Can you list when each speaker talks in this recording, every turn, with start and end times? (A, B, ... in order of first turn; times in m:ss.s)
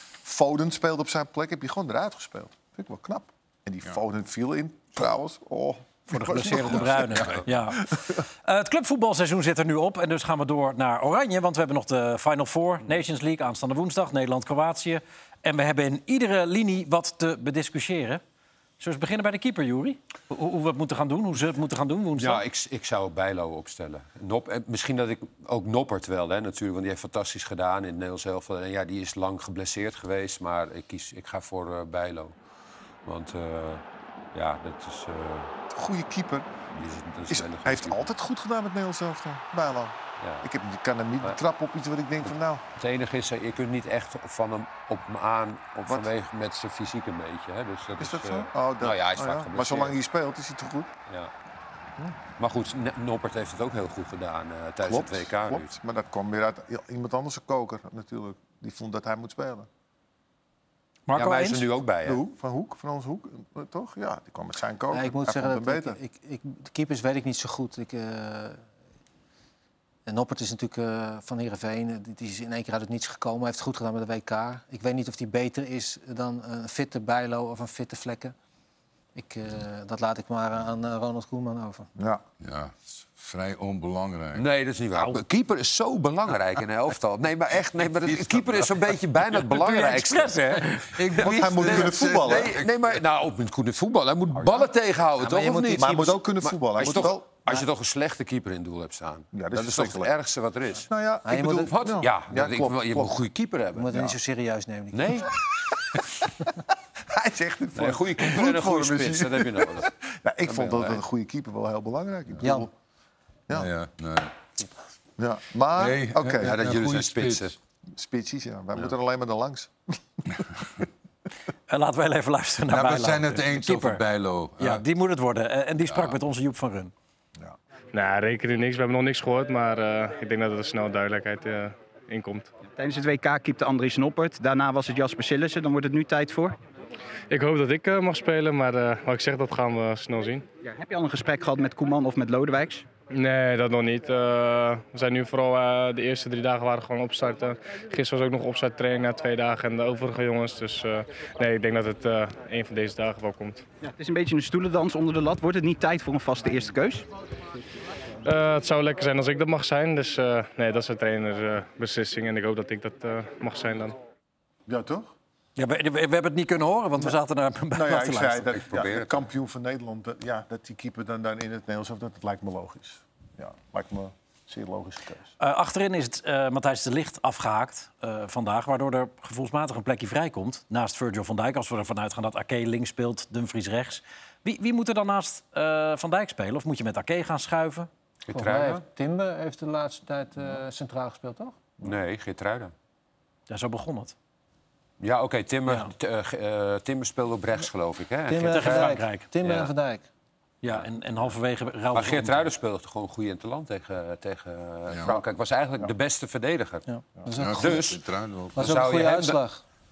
0:00.2-0:07.4 A
0:06.1-0:18.2 B
0:06.9-0:07.4 C
0:18.8-0:22.4 B
0:22.2-0:32.3 D
0:33.0-0:33.8 D
0:34.3-0:35.5 D
0:35.7-0:36.5 A
0:36.7-0:38.1 D
0:37.3-0:42.6 A
0:40.2-0:40.4 D
0:42.8-0:50.0 D
0:48.0-0:50.9 A
0:52.4-0:55.7 D
0:54.8-0:59.7 A
1:01.1-1:01.6 B
1:01.1-1:02.2 D
1:02.0-1:06.0 A
1:04.9-1:08.6 E
1:10.0-1:18.3 E
1:19.1-1:21.9 E
1:22.0-1:22.2 A
1:22.4-1:24.4 C
1:24.4-1:40.9 D
1:28.0-1:28.8 C
1:29.6-1:31.0 B
1:31.0-1:32.7 C
1:31.2-1:32.6 A
1:34.5-1:35.6 C
1:35.2-1:35.9 E
1:35.7-1:37.3 A
1:39.3-1:40.1 A
1:40.7-1:43.2 A
1:41.2-1:41.7 E
1:41.7-1:44.1 D
1:43.8-1:45.3 E
1:44.9-1:45.3 D
1:47.1-1:52.7 A
1:47.8-1:49.9 D
1:50.4-1:51.0 D
1:52.4-1:52.7 E
1:53.5-1:54.3 C
1:55.2-1:56.6 A
1:55.8-1:57.5 C
1:56.4-1:57.5 D
1:57.9-1:59.7 A
2:01.7-2:04.0 B
2:02.7-2:04.8 C
2:04.6-2:06.9 B
2:05.9-2:06.2 C
2:07.9-2:12.5 F
2:12.7-2:16.6 G
2:17.3-2:20.4 F
2:20.6-2:22.9 G
2:23.1-2:33.6 F
2:33.8-2:37.1 G
2:38.2-2:44.0 F
2:44.7-2:45.1 A
2:45.6-2:48.5 B
2:47.7-2:55.3 A
2:48.5-2:49.2 D
2:55.4-3:07.9 B
3:08.3-3:08.8 D
3:08.3-3:11.6 E
3:11.8-3:12.7 D
3:13.5-3:14.1 B
3:15.0-3:19.7 D
3:18.3-3:20.0 E
3:18.4-3:19.5 B
3:20.6-3:22.4 B
3:21.9-3:26.9 D
3:24.9-3:25.2 C
3:26.9-3:28.0 E
3:27.4-3:28.7 C
3:27.6-3:28.0 D
3:28.6-3:29.4 D
3:28.6-3:29.6 E